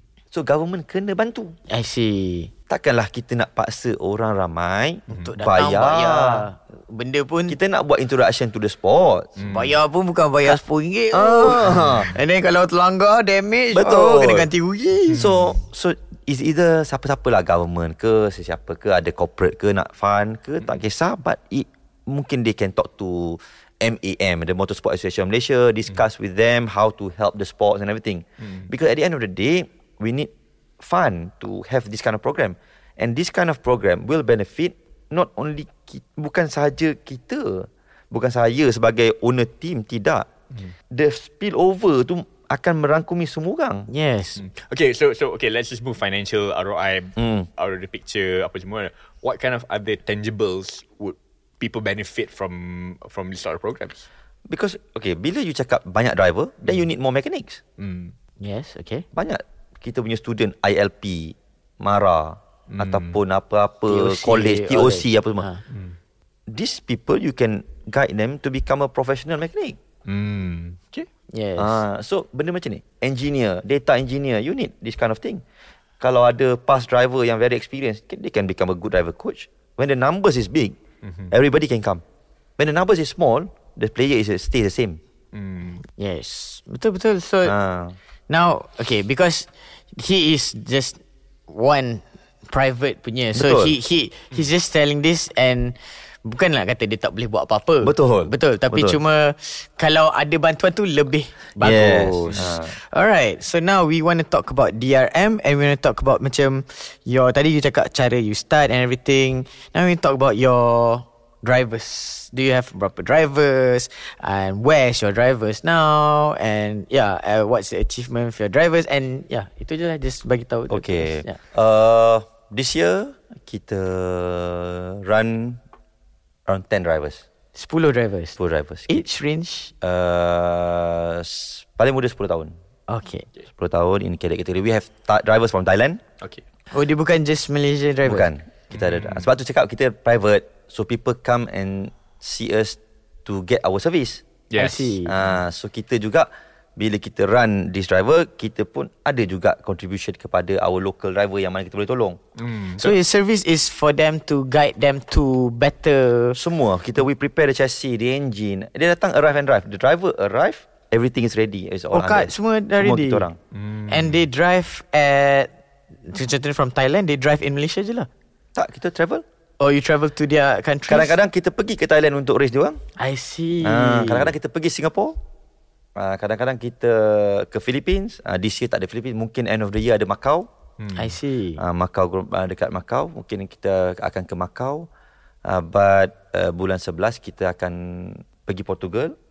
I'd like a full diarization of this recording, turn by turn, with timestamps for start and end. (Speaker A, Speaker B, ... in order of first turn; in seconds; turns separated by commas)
Speaker A: 0.3-1.6, Speaker B: 1.7-2.5, Speaker A: 2.7-6.5, Speaker C: 5.1-5.3, Speaker B: 5.1-7.6, Speaker A: 7.5-9.3, Speaker C: 9.4-9.8, Speaker B: 9.4-15.2, Speaker A: 11.1-12.1, Speaker C: 11.7-12.0, Speaker A: 13.7-14.5, Speaker C: 15.1-15.6, Speaker A: 15.1-40.3, Speaker C: 28.4-28.7, Speaker A: 40.9-43.9, Speaker B: 43.9-44.4, Speaker C: 44.4-54.1, Speaker A: 47.2-47.5, Speaker A: 54.5-57.6, Speaker C: 57.8-58.1, Speaker B: 58.4-59.0, Speaker A: 59.1-65.5, Speaker C: 62.7-63.2, Speaker B: 63.9-65.6, Speaker C: 65.7-66.0, Speaker A: 66.5-69.8, Speaker C: 70.1-71.1, Speaker B: 71.3-71.8, Speaker A: 71.6-75.4, Speaker A: 76.0-80.8, Speaker C: 81.0-81.3, Speaker A: 81.3-82.0, Speaker A: 82.6-85.0, Speaker C: 85.3-85.8, Speaker B: 85.8-87.5, Speaker A: 87.5-88.0, Speaker B: 88.3-121.4, Speaker A: 93.3-93.7, Speaker A: 97.8-99.0, Speaker A: 101.6-102.8, Speaker A: 120.7-125.6, Speaker A: 126.5-127.2, Speaker B: 127.5-128.4, Speaker A: 128.4-129.1, Speaker B: 128.9-129.7, Speaker A: 129.8-132.5, Speaker B: 132.9-133.3, Speaker A: 133.6-136.0, Speaker B: 136.7-138.3, Speaker A: 138.1-144.2, Speaker C: 138.7-139.3, Speaker C: 144.5-145.4, Speaker B: 144.6-145.1, Speaker A: 145.1-152.2, Speaker C: 152.4-152.9, Speaker B: 152.8-156.4, Speaker A: 156.3-163.4, Speaker B: 161.9-163.3, Speaker C: 163.5-164.2, Speaker B: 163.9-165.5, Speaker B: 166.1-168.1, Speaker A: 168.6-169.2, Speaker B: 169.6-171.2, Speaker A: 170.9-172.8, Speaker B: 173.0-174.3, Speaker A: 173.6-175.2, Speaker A: 176.0-180.5, Speaker C: 180.8-181.2, Speaker B: 180.9-181.6, Speaker A: 181.6-184.9, Speaker A: 185.4-189.1